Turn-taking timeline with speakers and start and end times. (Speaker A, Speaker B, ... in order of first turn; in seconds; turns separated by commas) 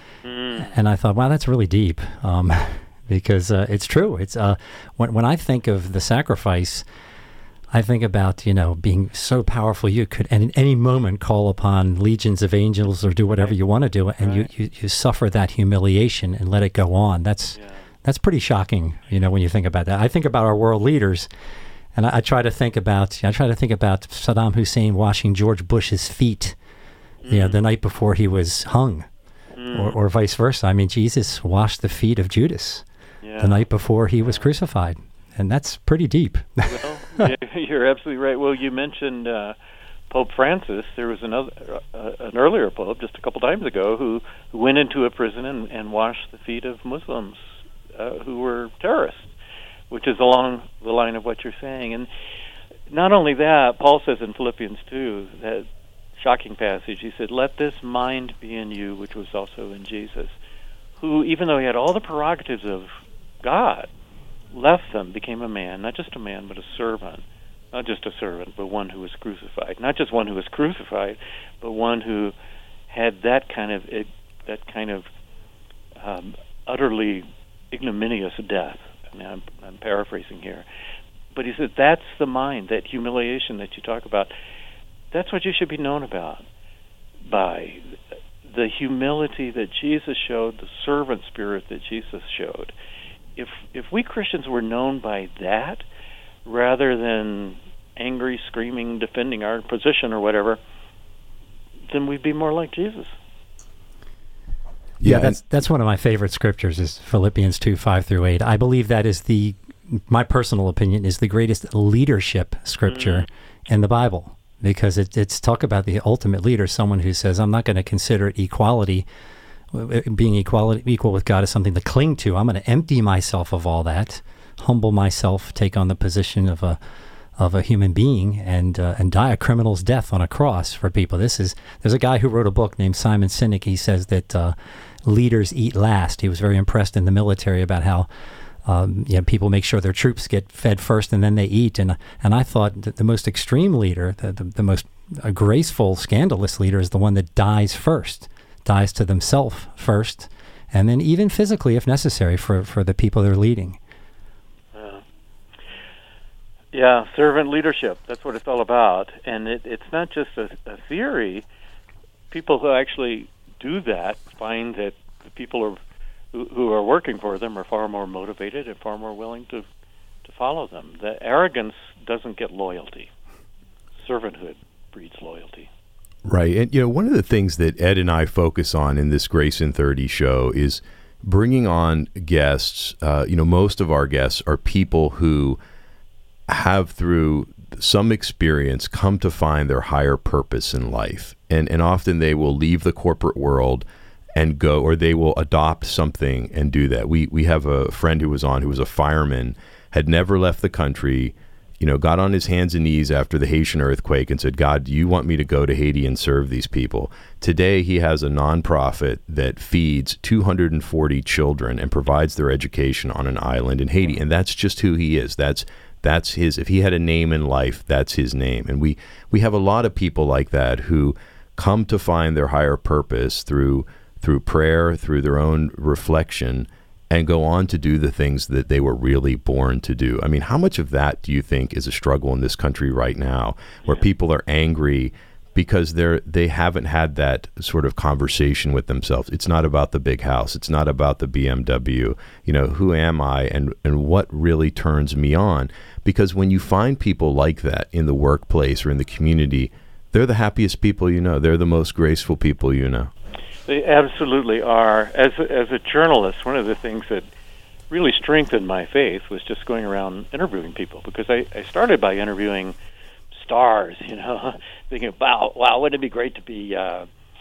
Speaker A: 0.2-0.7, Speaker B: 0.6-6.8, Speaker B: 7.7-21.3, Speaker A: 14.2-14.5, Speaker A: 17.6-17.8, Speaker B: 21.9-26.6, Speaker A: 27.2-27.6, Speaker B: 27.3-29.1, Speaker A: 29.5-29.9, Speaker B: 29.7-32.8, Speaker A: 33.2-33.6, Speaker B: 33.4-37.3, Speaker A: 36.7-39.5, Speaker A: 40.1-49.3, Speaker A: 49.9-52.1, Speaker A: 52.9-55.6, Speaker A: 56.2-60.3, Speaker A: 61.0-62.9, Speaker A: 63.4-63.9, Speaker A: 64.5-72.3, Speaker A: 72.9-75.1, Speaker A: 76.0-80.6, Speaker A: 81.3-84.3, Speaker A: 85.1-86.4, Speaker A: 87.3-92.7, Speaker A: 93.3-95.8, Speaker A: 96.4-100.6, Speaker A: 101.9-103.1, Speaker C: 105.0-105.4, Speaker B: 105.0-119.0, Speaker A: 112.9-113.2, Speaker B: 119.7-126.8, Speaker B: 127.4-138.1, Speaker B: 138.6-153.8, Speaker A: 154.7-155.0, Speaker A: 156.7-161.4, Speaker A: 162.3-165.8, Speaker A: 166.3-169.6, Speaker A: 170.2-173.1, Speaker A: 174.0-175.7, Speaker C: 176.2-185.6, Speaker C: 186.5-253.1, Speaker A: 253.7-257.2, Speaker A: 257.9-262.8, Speaker A: 263.3-267.1